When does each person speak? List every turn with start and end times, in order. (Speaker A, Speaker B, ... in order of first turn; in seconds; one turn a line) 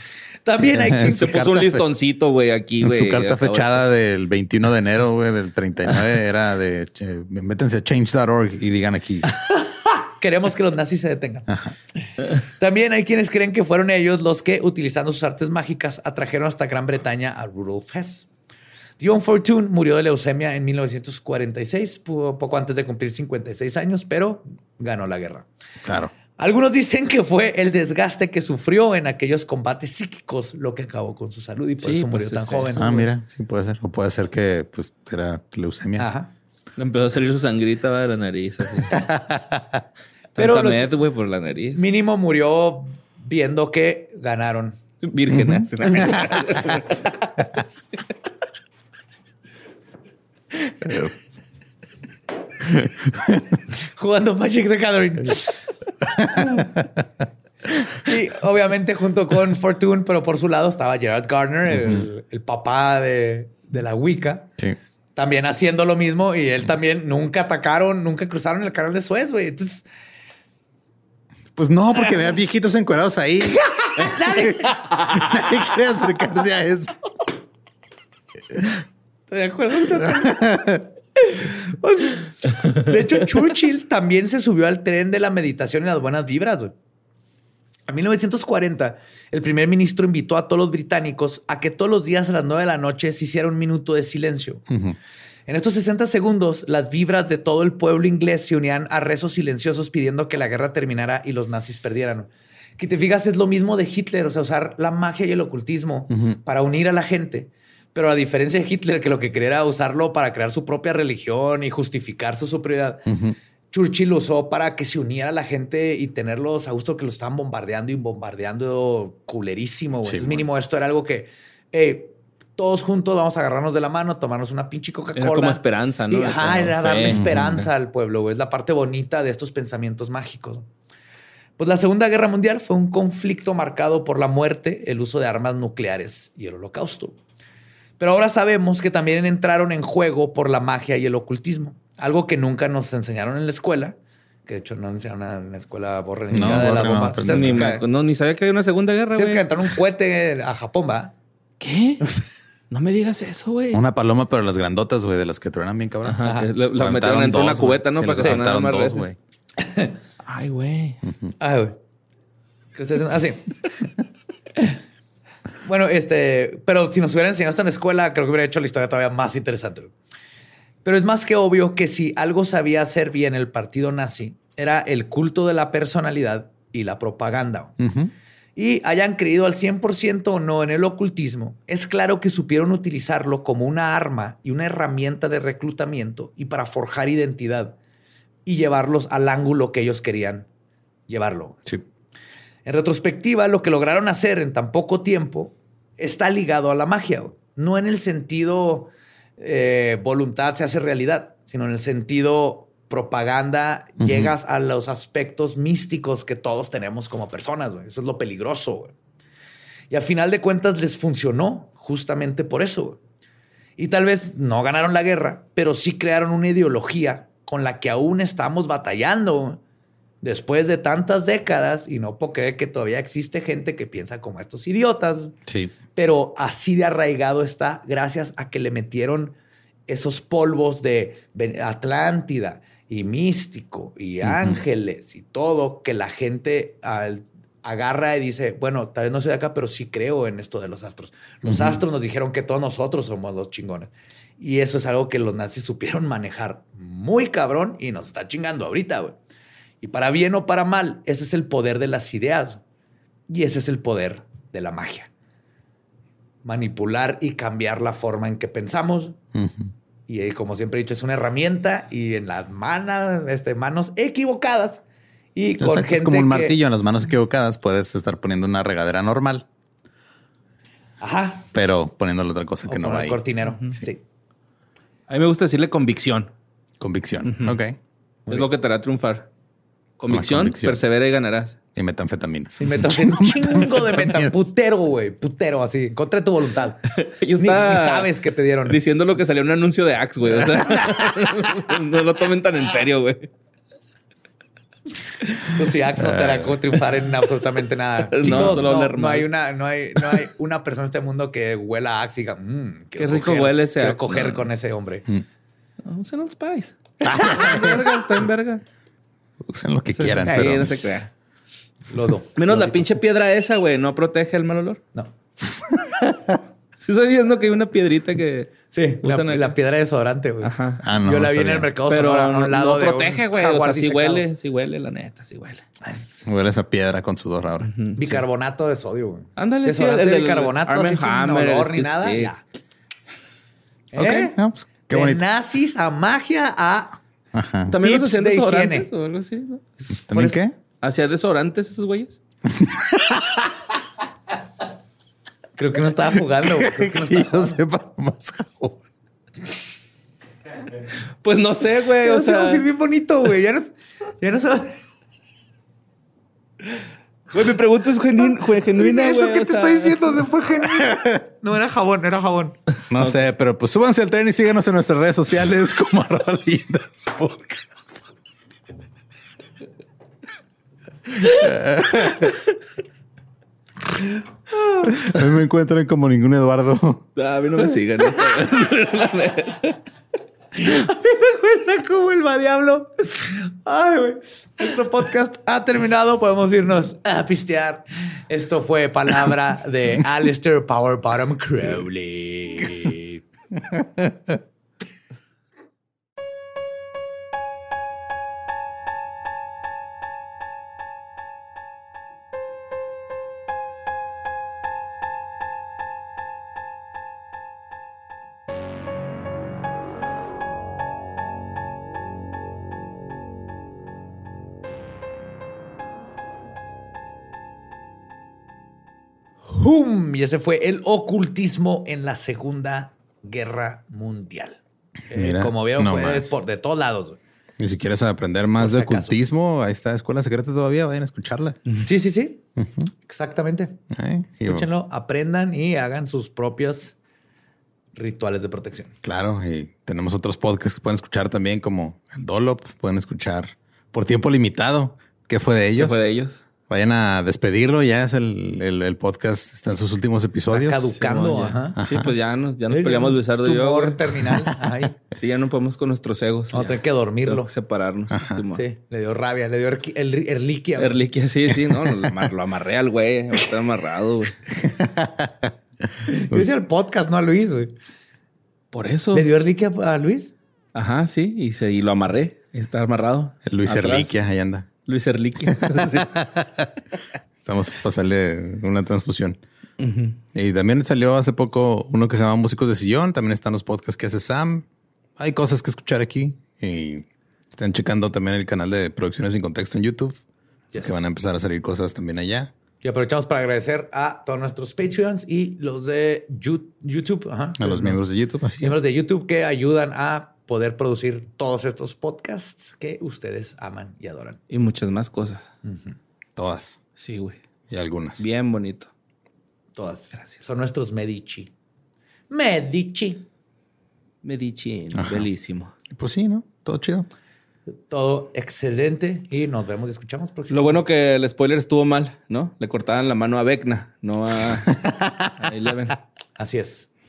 Speaker A: 0.4-1.6
Speaker B: 0.6-1.8
Speaker C: 1.1-3.8
Speaker B: 2.8-9.3
Speaker A: 9.5-11.5
Speaker B: 11.5-11.7
Speaker A: 12.4-18.3
Speaker A: 19.0-25.5
Speaker B: 25.8-26.1
Speaker A: 26.4-33.1
Speaker C: 31.8-32.8
Speaker B: 32.8-36.1
Speaker A: 36.0-36.3
Speaker C: 36.8-39.0
Speaker C: 40.4-41.8
Speaker A: 40.4-40.9
Speaker A: 41.7-44.8
Speaker C: 45.0-47.0
Speaker B: 45.3-45.6
Speaker A: 45.8-46.8
Speaker B: 50.9-51.1
Speaker B: 52.6-53.6
Speaker A: 53.7-56.7
Speaker B: 56.2-56.5
Speaker A: 57.9-64.5
Speaker A: 65.1-69.8
Speaker B: 71.5-76.9
Speaker A: 73.5-75.6
Speaker A: 79.3-86.7
Speaker B: 80.0-80.8
Speaker A: 87.9-94.6
Speaker B: 94.7-95.0
Speaker A: 95.5-113.1
Speaker B: 113.1-113.3
Speaker A: 113.7-125.6
Speaker B: 120.0-120.4
Speaker C: 125.2-127.2
Speaker A: 126.1-130.7
Speaker B: 127.1-127.7
Speaker A: 131.6-137.2
Speaker A: 138.0-147.8
Speaker B: 146.3-147.7
Speaker C: 147.2-149.4
Speaker A: 149.1-151.1
Speaker C: 151.6-152.1
Speaker C: 152.7-153.8
Speaker B: 153.7-156.2
Speaker C: 156.0-159.0
Speaker A: 156.2-156.5
Speaker B: 156.8-159.2
Speaker A: 159.6-159.9
Speaker C: 160.2-161.0
Speaker B: 161.0-161.3
Speaker A: 161.4-161.8
Speaker A: 162.7-163.7
Speaker A: 165.6-169.9
Speaker A: 170.8-177.7
Speaker B: 177.8-178.1
Speaker A: 178.6-187.8
Speaker A: 188.4-190.5
Speaker A: 191.1-191.7
Speaker A: 192.6-208.9
Speaker B: 204.0-204.3
Speaker A: 209.9-213.0
Speaker A: 213.8-219.6
Speaker A: 220.2-225.3
Speaker B: 225.5-225.7
Speaker A: 225.9-229.3
Speaker A: 229.9-249.2
Speaker B: 234.2-234.6
Speaker B: 241.4-241.8
Speaker A: 249.8-252.6
Speaker A: 253.3-255.1
Speaker A: 256.4-259.2
Speaker B: 259.3-259.7
Speaker A: 260.1-264.8
Speaker A: 265.3-266.6
Speaker B: 265.6-269.4
Speaker A: 271.0-271.5
Speaker B: 271.5-273.2
Speaker A: 272.7-274.0
Speaker C: 275.1-276.3
Speaker B: 276.8-277.8
Speaker C: 277.3-277.5
Speaker C: 278.3-279.3
Speaker C: 280.0-281.6
Speaker B: 280.1-280.8
Speaker B: 281.7-284.3
Speaker A: 282.6-288.8
Speaker C: 286.9-288.1
Speaker C: 288.6-293.3
Speaker A: 295.5-305.1
Speaker B: 296.0-296.5
Speaker C: 298.0-299.3
Speaker B: 298.2-298.7
Speaker C: 303.0-304.5
Speaker C: 305.8-308.6
Speaker B: 307.0-307.9
Speaker B: 309.4-310.7
Speaker C: 309.9-311.1
Speaker A: 311.9-312.9
Speaker C: 312.4-314.8
Speaker B: 315.7-316.4
Speaker C: 316.8-319.5
Speaker A: 318.7-324.2
Speaker C: 320.4-320.8
Speaker B: 320.8-321.7
Speaker C: 321.9-325.6
Speaker A: 325.8-326.2
Speaker B: 326.2-327.7
Speaker C: 327.6-328.0
Speaker A: 327.9-332.4
Speaker C: 329.4-332.3
Speaker A: 333.9-334.4
Speaker B: 333.9-335.2
Speaker A: 334.9-337.0
Speaker B: 337.3-337.7
Speaker C: 337.7-339.6
Speaker A: 337.7-338.9
Speaker A: 339.8-340.4
Speaker B: 340.1-340.5
Speaker C: 340.8-342.2
Speaker B: 342.5-343.5
Speaker A: 345.6-347.6
Speaker B: 346.4-348.8
Speaker C: 351.2-352.6
Speaker A: 352.0-354.8
Speaker C: 357.3-360.1
Speaker A: 358.2-362.6
Speaker B: 362.9-368.0
Speaker B: 371.3-372.3
Speaker B: 374.9-377.1
Speaker C: 377.1-379.8
Speaker A: 380.6-393.2
Speaker B: 393.6-394.4
Speaker A: 419.4-427.2
Speaker B: 425.1-426.4
Speaker B: 427.6-431.6
Speaker A: 428.6-429.2
Speaker A: 431.8-432.4
Speaker B: 432.6-432.9
Speaker A: 433.0-433.8
Speaker B: 433.9-434.7
Speaker A: 434.4-436.9
Speaker A: 437.9-438.9
Speaker B: 439.0-446.0
Speaker C: 445.7-446.4
Speaker B: 446.7-450.9
Speaker A: 450.5-451.8
Speaker C: 451.0-454.4
Speaker B: 451.8-452.1
Speaker A: 452.7-455.0
Speaker C: 455.1-458.6
Speaker A: 456.5-457.5
Speaker B: 458.1-458.4
Speaker A: 458.5-461.0
Speaker C: 460.8-464.4
Speaker B: 461.7-462.3
Speaker B: 464.5-465.5
Speaker A: 466.1-467.7
Speaker C: 468.7-469.3
Speaker A: 469.1-470.3
Speaker C: 470.7-474.1
Speaker B: 473.4-474.7
Speaker C: 474.9-476.6
Speaker B: 475.6-475.9
Speaker B: 477.4-479.4
Speaker C: 479.8-480.2
Speaker B: 480.3-484.6
Speaker B: 485.2-490.2
Speaker A: 490.7-491.0
Speaker B: 490.8-492.5
Speaker A: 492.8-498.1
Speaker B: 497.6-498.8
Speaker A: 498.6-504.4
Speaker C: 504.5-505.5
Speaker A: 505.6-505.9
Speaker B: 506.4-506.8
Speaker C: 507.0-507.4
Speaker B: 507.7-508.2
Speaker C: 508.2-508.9
Speaker A: 509.8-511.5
Speaker A: 512.3-513.2
Speaker C: 514.2-515.7
Speaker B: 514.9-515.3
Speaker B: 515.9-517.1
Speaker A: 517.9-520.8
Speaker C: 520.5-526.0
Speaker B: 524.8-525.3
Speaker A: 526.4-526.9